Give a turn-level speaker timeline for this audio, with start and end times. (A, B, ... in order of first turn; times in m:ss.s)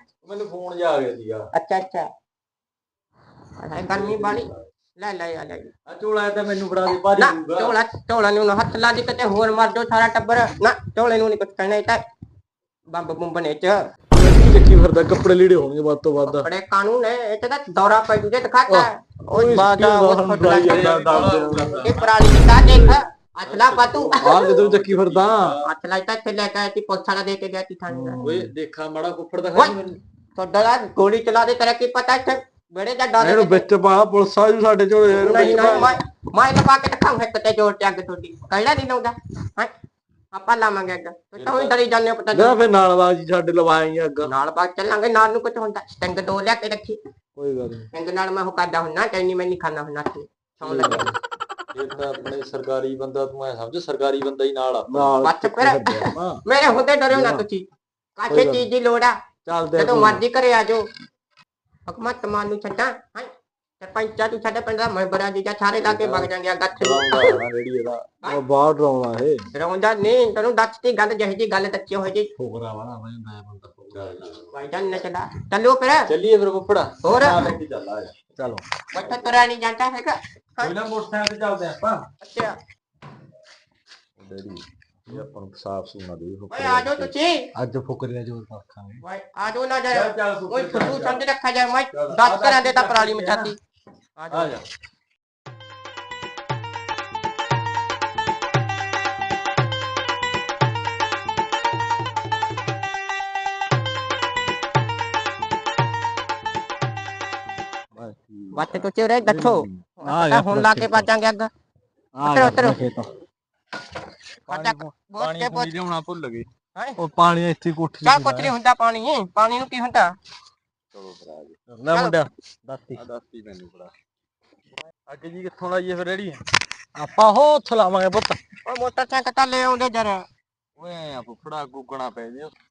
0:00.2-0:01.5 A
0:01.5-0:02.1 B
0:03.6-0:05.7 B
0:03.8-0:04.7 A
0:05.9-0:07.8 A
0:07.1-0:12.0 B
0:12.9-0:13.8 B
0:14.1-0:16.5 C
0:16.2-0:24.6 B
0:18.7-0:21.8 C
0:20.4-0:25.7 A
0:24.2-0:25.6 C
0:25.6-0:28.2 B
0:27.9-0:28.5 C
0:28.2-0:30.0 A
0:30.4-0:33.6 B
0:33.2-0:36.0 C
0:35.2-0:39.7 B
0:40.3-0:42.5 B
0:41.4-0:41.7 A
0:42.3-0:44.3 C
0:44.2-0:47.0 B
0:47.4-0:47.9 C
0:47.9-0:51.1 B
0:50.6-0:51.1 C
0:51.7-0:55.2 A
0:54.9-0:56.4 C
0:55.2-0:59.2 B
0:57.1-0:57.5 A
0:58.3-0:58.7 A
0:59.5-1:00.2 A
0:59.8-1:00.8 B
1:01.9-1:07.4 B
1:05.8-1:08.0 A
1:08.3-1:09.4 C
1:09.5-1:12.3 B
1:12.4-1:14.1 C
1:13.9-1:14.5 A
1:14.5-1:16.1 B
1:16.1-1:18.1 A
1:17.0-1:17.4 B
1:18.4-1:18.6 C
1:18.9-1:20.7 B
1:20.6-1:22.0 A
1:22.2-1:22.6 B
1:24.2-1:27.1 A
1:26.5-1:27.5 B
1:27.6-1:29.0 C
1:29.0-1:33.6 B
1:29.9-1:31.2 A
1:31.9-1:33.5 A
1:32.4-1:32.9 C
1:34.2-1:34.6 B
1:34.3-1:34.6 A
1:47.9-1:48.3 C
1:48.5-1:51.5 B
1:49.3-1:49.8 A
1:50.0-1:51.1 C
1:52.2-1:53.1 C
1:52.2-1:52.8 B
1:54.5-1:55.7 B
1:54.5-1:56.5 A
1:57.0-1:58.5 C
1:58.0-2:00.1 B
2:00.9-2:01.6 A
2:01.7-2:03.0 C
2:01.9-2:02.2 B
2:03.0-2:03.9 A
2:05.1-2:06.4 A
2:06.9-2:08.4 C
2:08.6-2:10.2 B
2:10.8-2:12.5 A